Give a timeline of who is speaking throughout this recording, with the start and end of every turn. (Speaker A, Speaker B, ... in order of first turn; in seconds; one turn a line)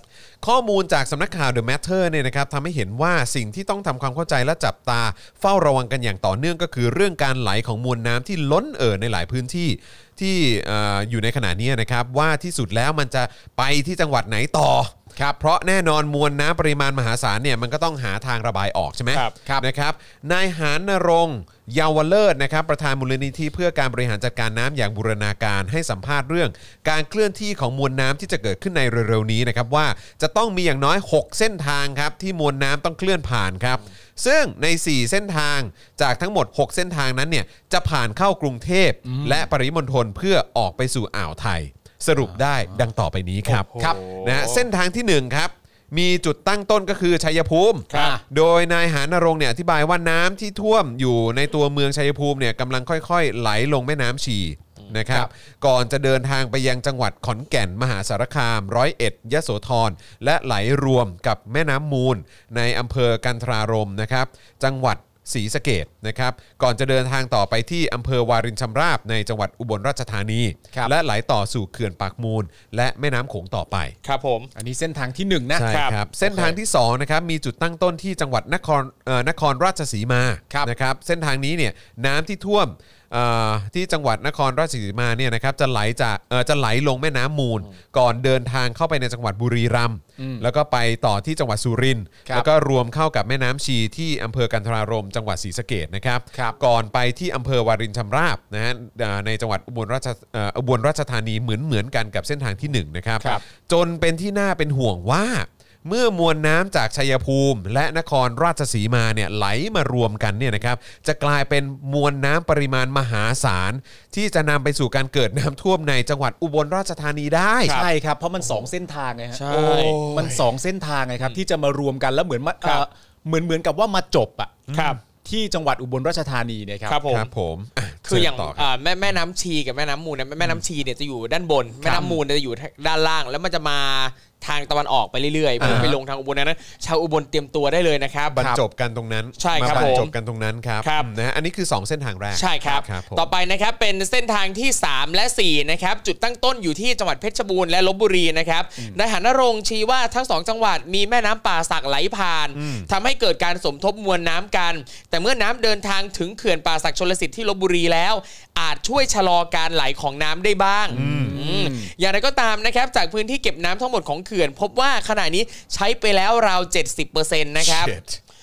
Speaker A: 0.4-74.0
Speaker B: 39.0-39.5
Speaker C: 43.5-44.6
Speaker C: 47.9-48.2
Speaker B: 47.9-48.2
Speaker C: 74.0-74.5
Speaker B: 74.5-76.6
Speaker A: 75.5-117.8
Speaker C: 75.7-76.0
Speaker B: 90.2-90.5
Speaker B: 117.7-124.6
Speaker C: 119.3-120.0
Speaker A: 119.5-120.5
Speaker A: 124.7-125.0
Speaker C: 124.7-125.0
Speaker B: 125.2-127.0
Speaker C: 126.9-127.3
Speaker A: 127.1-128.7
Speaker C: 128.1-138.4
Speaker B: 131.8-132.2
Speaker B: 135.6-136.0
Speaker A: 135.6-135.9
Speaker A: 138.3-143.3
Speaker B: 138.3-138.6
Speaker C: 139.4-140.1
Speaker B: 139.6-140.0
Speaker C: 140.8-141.1
Speaker C: 142.3-167.9
Speaker A: 152.6-152.9
Speaker B: 160.9-161.9
Speaker A: 160.9-161.4
Speaker A: 167.6-168.2